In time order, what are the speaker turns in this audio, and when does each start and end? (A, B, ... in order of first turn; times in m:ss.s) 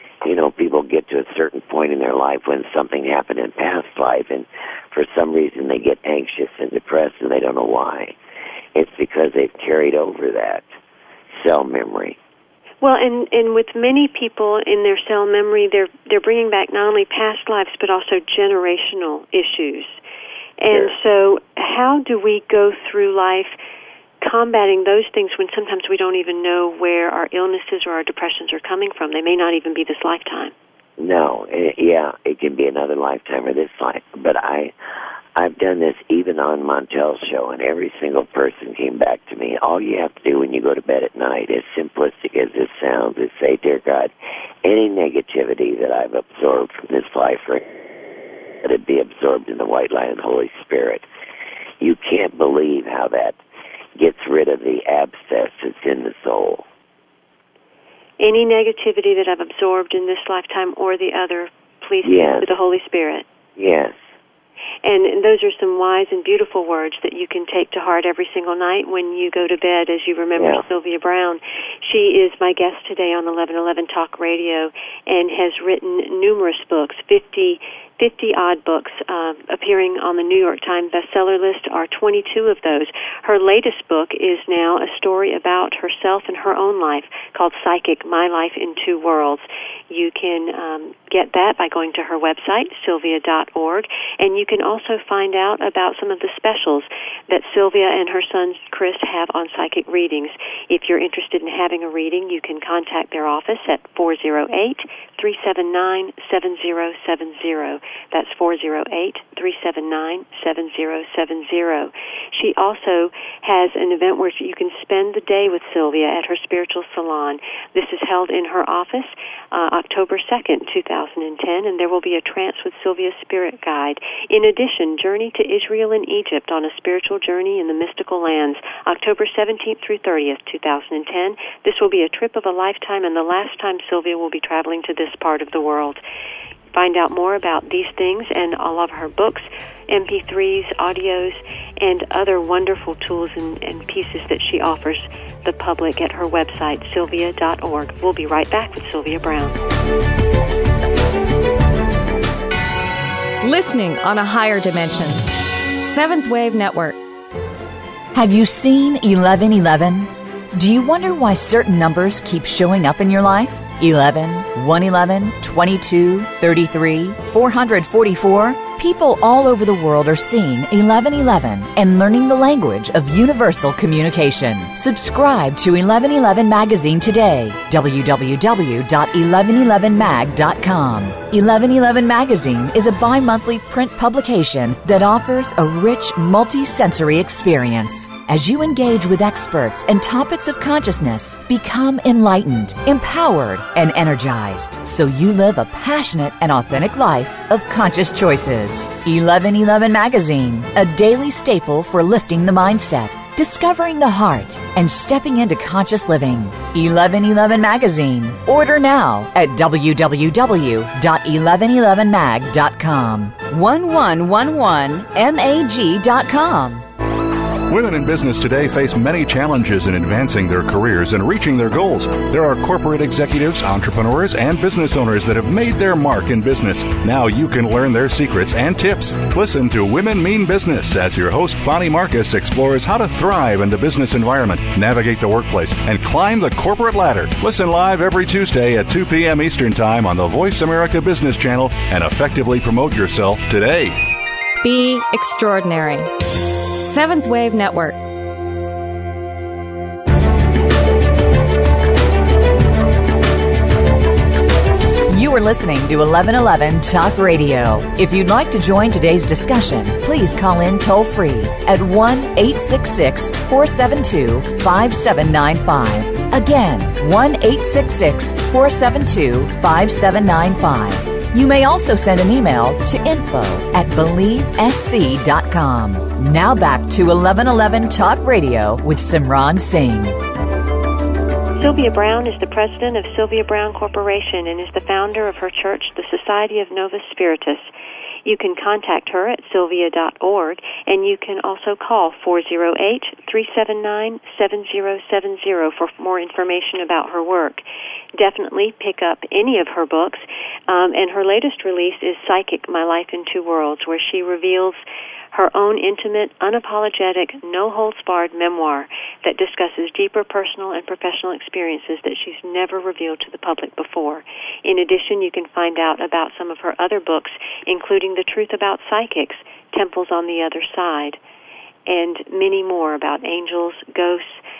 0:00.2-0:08.2 A
0:08.7-0:10.7 A
0:11.3-0:12.2 A
0:12.8-0:20.0 B
0:20.6-0:23.5 B
0:24.2-0:30.5 B
0:31.0-0:34.7 A
0:35.4-0:44.1 A
0:44.6-0:47.6 A
0:48.6-0:51.0 A
0:51.8-0:53.4 A
0:54.0-0:56.6 A
0:58.2-1:03.2 B
1:02.0-1:02.5 A
1:03.6-1:04.0 A
1:04.8-2:16.0 B
1:10.4-1:10.6 A
2:16.7-2:29.6 B
2:33.4-2:37.0 C
2:38.1-3:36.8 D
3:37.7-4:04.0 E
4:04.6-4:06.1 C
4:06.8-4:08.0 C
4:15.1-4:40.2 D
4:41.6-4:47.7 B
4:48.2-4:57.6 B
4:58.1-5:04.8 B
5:05.3-5:21.2 B
5:21.8-5:24.4 B